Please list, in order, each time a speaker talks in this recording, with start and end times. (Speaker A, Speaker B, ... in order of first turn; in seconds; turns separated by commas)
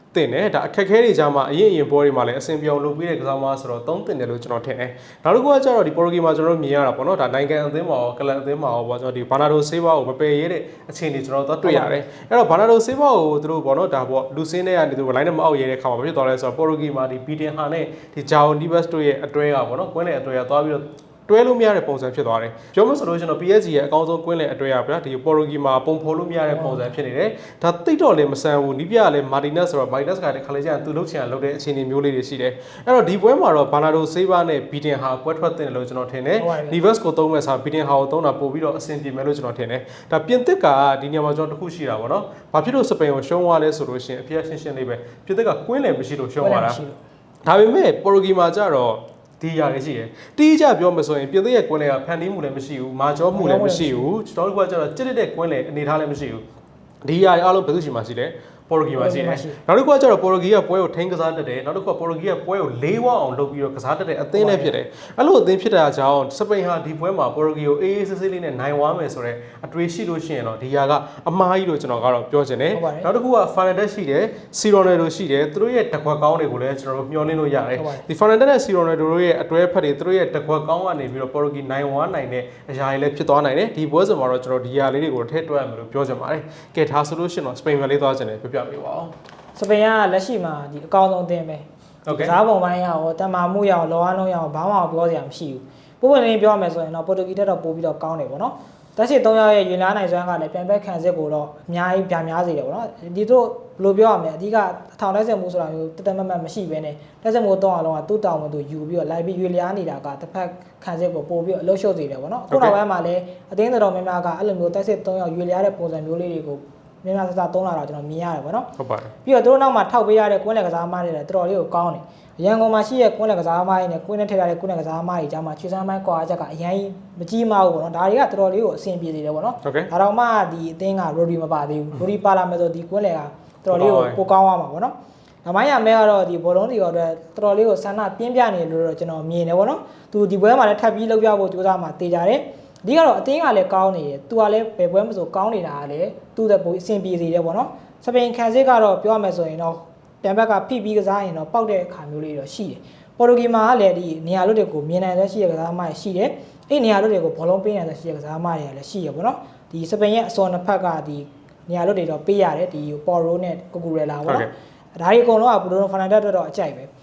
Speaker A: 0.1-46.8, Speaker B: 11.6-12.0, Speaker B: 26.5-26.9, Speaker B: 36.4-36.8, Speaker B: 46.4-47.0, Speaker A: 47.5-56.4, Speaker B: 53.3-54.1, Speaker A: 57.0-89.1, Speaker B: 59.0-59.6, Speaker B: 64.3-64.7, Speaker B: 72.7-73.1, Speaker B: 77.8-78.0, Speaker B: 89.5-118.7, Speaker A: 92.0-92.3, Speaker A: 112.5-112.8, Speaker A: 118.8-119.1, Speaker B: 119.2-166.9, Speaker A: 129.6-129.9, Speaker A: 133.7-134.2